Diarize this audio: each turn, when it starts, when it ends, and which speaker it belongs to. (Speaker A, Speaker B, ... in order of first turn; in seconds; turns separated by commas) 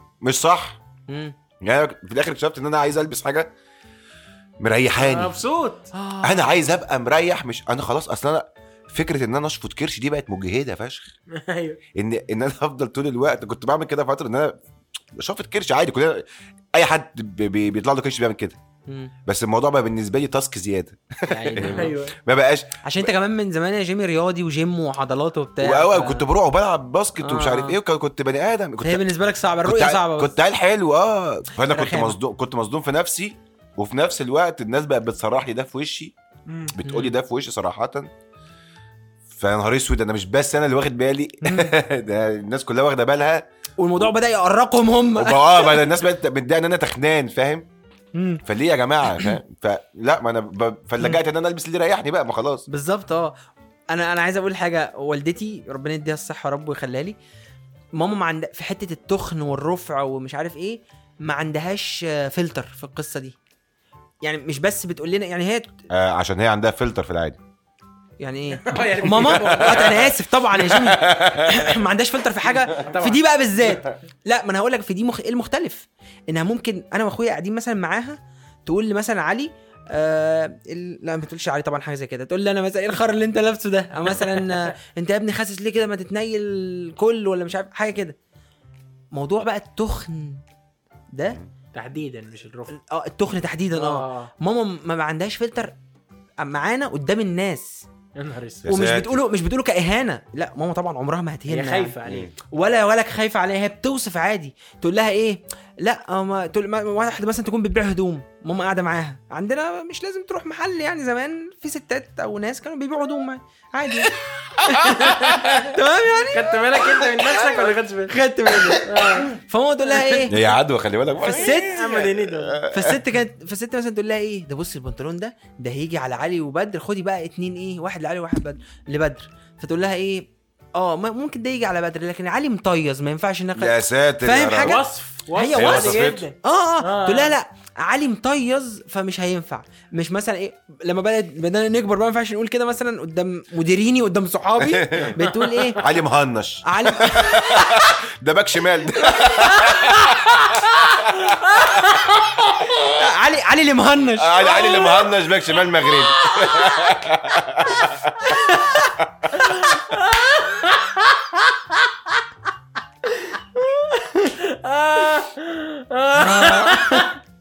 Speaker A: 0.2-0.8, Speaker B: 1.1-1.3, Speaker A: 1.6-3.5, Speaker A: 4.6-5.4, Speaker C: 5.0-5.9, Speaker B: 5.9-6.7, Speaker A: 6.2-11.1, Speaker C: 11.3-11.8, Speaker A: 11.9-14.6, Speaker A: 15.1-18.6, Speaker B: 18.9-19.1, Speaker A: 19.2-23.1, Speaker B: 21.3-21.9, Speaker C: 21.6-22.1, Speaker B: 22.8-26.3, Speaker A: 25.6-29.1, Speaker B: 27.2-27.8, Speaker B: 28.8-30.4, Speaker A: 29.6-36.1, Speaker B: 31.6-32.1, Speaker C: 36.5-36.8, Speaker A: 36.7-38.1, Speaker A: 39.3-44.1, Speaker B: 41.4-41.7, Speaker B: 43.8-45.9, Speaker A: 45.1-47.7, Speaker B: 48.1-48.4, Speaker A: 48.4-52.7, Speaker B: 52.7-53.3, Speaker B: 53.9-57.2, Speaker B: 57.9-63.4, Speaker B: 64.2-65.8, Speaker A: 65.9-67.4, Speaker B: 68.2-88.2, Speaker C: 68.6-70.1, Speaker A: 69.2-70.0, Speaker A: 70.5-71.8, Speaker C: 72.5-73.2, Speaker B: 89.1-90.4, Speaker B: 91.1-91.4, Speaker C: 91.7-92.7, Speaker B: 92.7-95.7, Speaker C: 93.7-94.3, Speaker B: 96.4-97.8, Speaker C: 98.2-98.6, Speaker A: 98.6-99.2, Speaker B: 98.7-102.0, Speaker C: 101.5-102.3, Speaker A: 102.0-102.3, Speaker B: 102.5-117.4, Speaker A: 114.6-115.1, Speaker C: 115.0-115.7, Speaker C: 116.3-118.2, Speaker B: 118.1-120.3, Speaker C: 118.7-119.3, Speaker C: 119.8-120.5, Speaker A: 120.3-123.0, Speaker C: 121.2-122.6, Speaker B: 121.2-121.8, Speaker B: 122.7-145.8, Speaker A: 133.5-134.8, Speaker C: 134.6-137.3, Speaker A: 135.5-136.3, Speaker A: 144.6-145.2, Speaker A: 145.8-151.8, Speaker B: 146.6-147.9, Speaker B: 149.0-150.1, Speaker C: 151.6-152.4, Speaker B: 153.0-154.8, Speaker A: 154.2-159.3, Speaker C: 154.6-155.0, Speaker B: 158.2-158.9, Speaker C: 159.3-162.2, Speaker B: 163.6-164.3, Speaker C: 164.4-167.2, Speaker B: 166.2-167.2